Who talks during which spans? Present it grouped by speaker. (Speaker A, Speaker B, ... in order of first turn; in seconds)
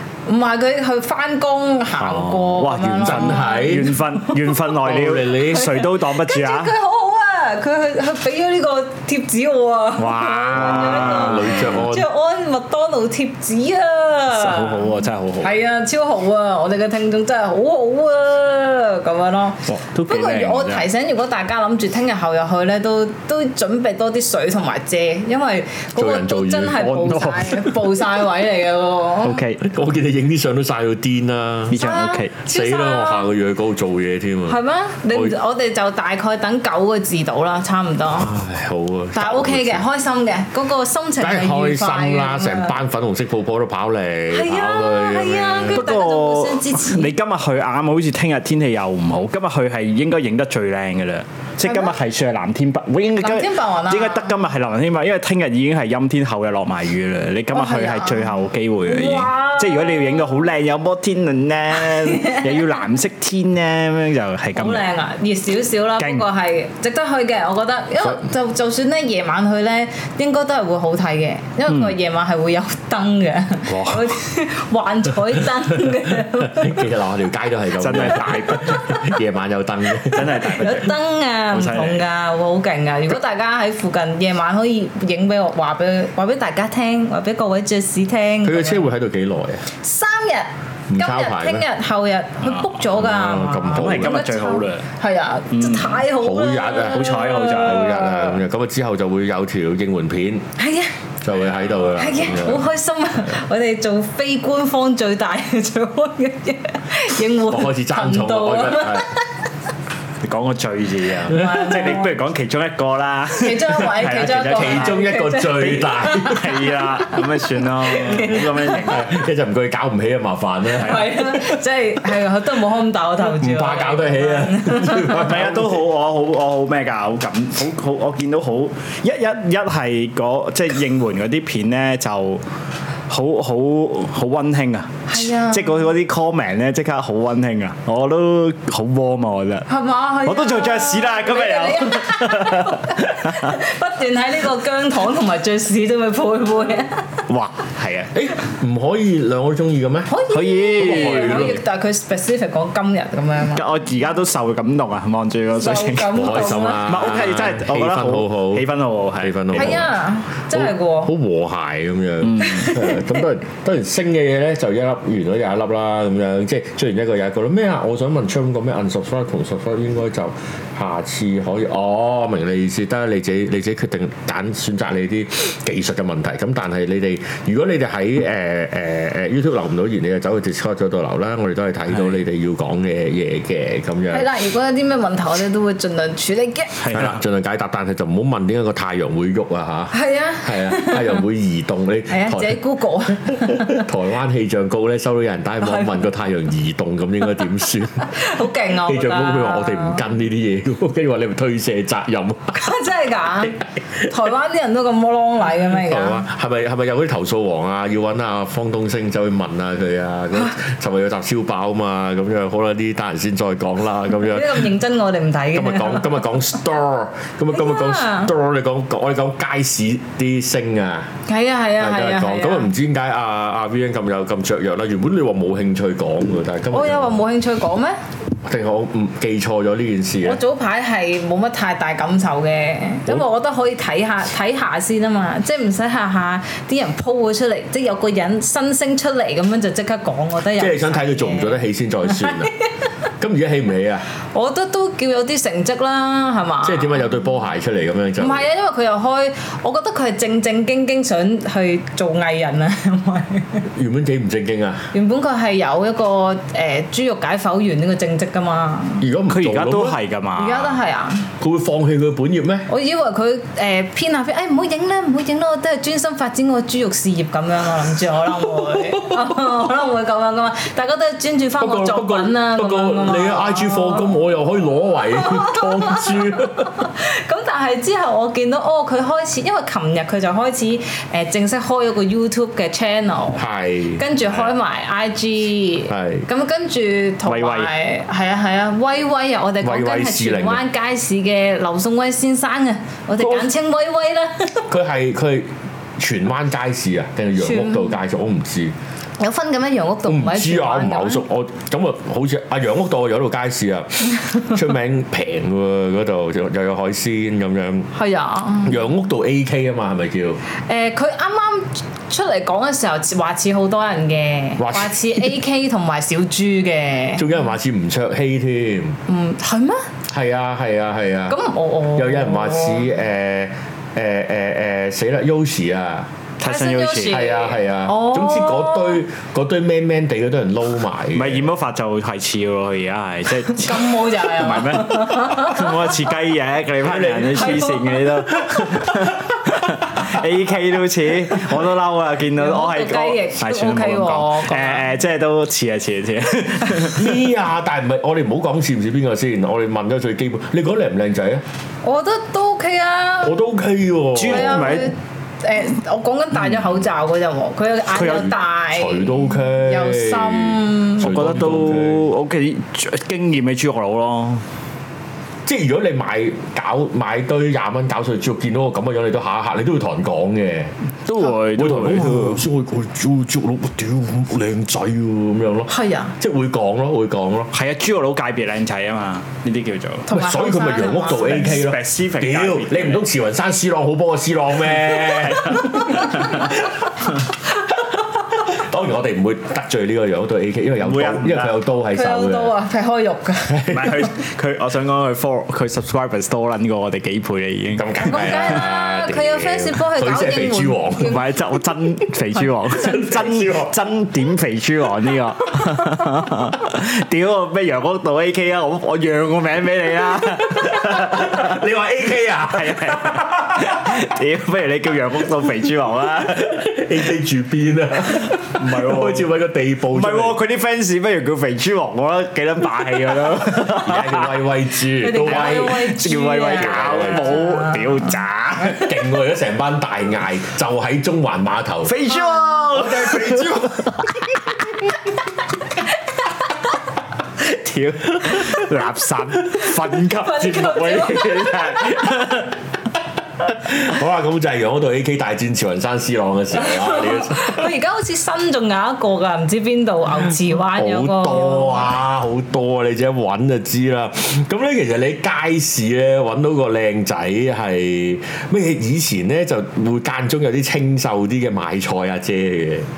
Speaker A: 0.3-4.6, 5.3-29.4, 31.7-33.2, 34.5-38.4, 39.1-42.8, 44.3-47.1, 51.6-51.9, 53.2-54.3, 57.5-60.5, 61.8-62.6, 64.5-76.8, 80.5-88.9, 89.8-98.4, 100.6-100.9, 102.0-109.3, 111.3-112.2, 113.4-118.9, 120.7-125.3, 135.1-135.9, 139.7-147.2, 150.1-153.7, 155.6-156.9, 159.5-161.1, 162.4-163.0, 184.1-186.8, 189.9-191.2, 192.1-193.8, 195.6-195.9, 198.1-200.0, 202.5-206.2, 214.1-216.2, 217.5-218.3, 221.3-222.7, 226.7-228.0, 230.2-242.7, 244.3-247.1, 248.2-253.7, 254.9-259.0, 260.4-261.3, 262.7-274.2, 275.1-283.4, 284.0-294.7, 297.4-297.9, 299.2-301.2, 307.9-308.8, 310.7-317.3, 319.1-319.9, 321.3-322.9, 326.4-329.0, 333.6-336.1, 337.3-338.1, 342.4-344.9, 351.8-353.4, 354.2-361.2, 375.7-376.1, 380.1-381.6, 391.9-394.0, 398.0-401.3, 425.0-428.1, 432.2-432.5, 439.6-442.2, 446.5-452.0
Speaker B: 2.0-6.7, 10.0-11.8, 14.3-15.6, 19.7-20.9, 26.7-27.8, 29.2-29.6, 31.7-32.3, 45.7-64.8, 66.0-66.3, 71.7-71.9, 73.7-74.1, 77.8-78.8, 80.0-81.0, 81.5-82.0, 92.4-92.8, 93.7-94.8, 95.5-96.0, 96.9-98.0, 110.2-115.0, 116.2-119.1, 120.8-121.1, 125.1-132.4, 133.1-139.7, 140.2-143.6, 147.3-148.1, 150.3-151.6, 153.5-159.7, 162.2-162.7, 186.8-187.2, 259.3-260.8, 287.2-287.7, 326.4-327.3, 331.1-347.2, 354.1-354.9, 357.9-358.3, 361.0-364.4, 371.1-372.4, 377.5-380.1, 381.1-383.1, 384.8-386.5, 390.8-391.6, 393.7-398.6, 401.0-411.6, 412.5-416.6, 418.2-419.3, 419.9-424.4, 425.2-428.9, 431.8-434.1, 437.4-442.5
Speaker C: 3.0-4.0, 4.7-5.7, 10.5-12.1, 25.9-26.9, 29.6-31.8, 32.4-34.6, 38.2-39.8, 41.2-45.9, 76.5-80.4, 88.4-89.6, 90.9-91.7, 92.9-94.2, 96.2-100.5, 101.2-102.7, 107.5-109.1, 111.3-111.7, 114.5-116.6, 118.8-121.5, 123.2-125.9, 148.1-150.1, 150.8-151.6, 156.1-158.7, 159.2-159.9, 160.5-184.2, 186.9-192.6, 193.1-198.2, 198.8-202.6, 205.7-214.7, 215.5-221.1, 221.8-227.2, 228.4-230.4, 240.6-242.5, 243.2-244.1, 246.6-248.4, 253.7-254.9, 259.0-260.0, 261.4-262.7, 268.6-269.3, 271.6-276.8, 283.4-284.5, 285.9-286.2, 289.6-290.6, 293.2-293.5, 294.7-298.7, 300.1-307.9, 308.6-310.4, 314.6-315.2, 317.2-319.0, 320.1-321.4, 321.9-326.1, 327.0-331.5, 336.8-337.7, 338.3-340.0, 346.9-351.4, 353.2-354.8, 358.7-362.1, 365.4-370.7, 371.4-377.5, 380.1-387.1, 387.7-392.5, 393.5-394.0, 397.7-401.2, 402.7-403.7, 410.5-413.9, 416.3-420.4, 423.7-425.9, 426.5-427.5, 428.6-431.9, 432.7-433.9, 443.4-447.7, 450.7-462.9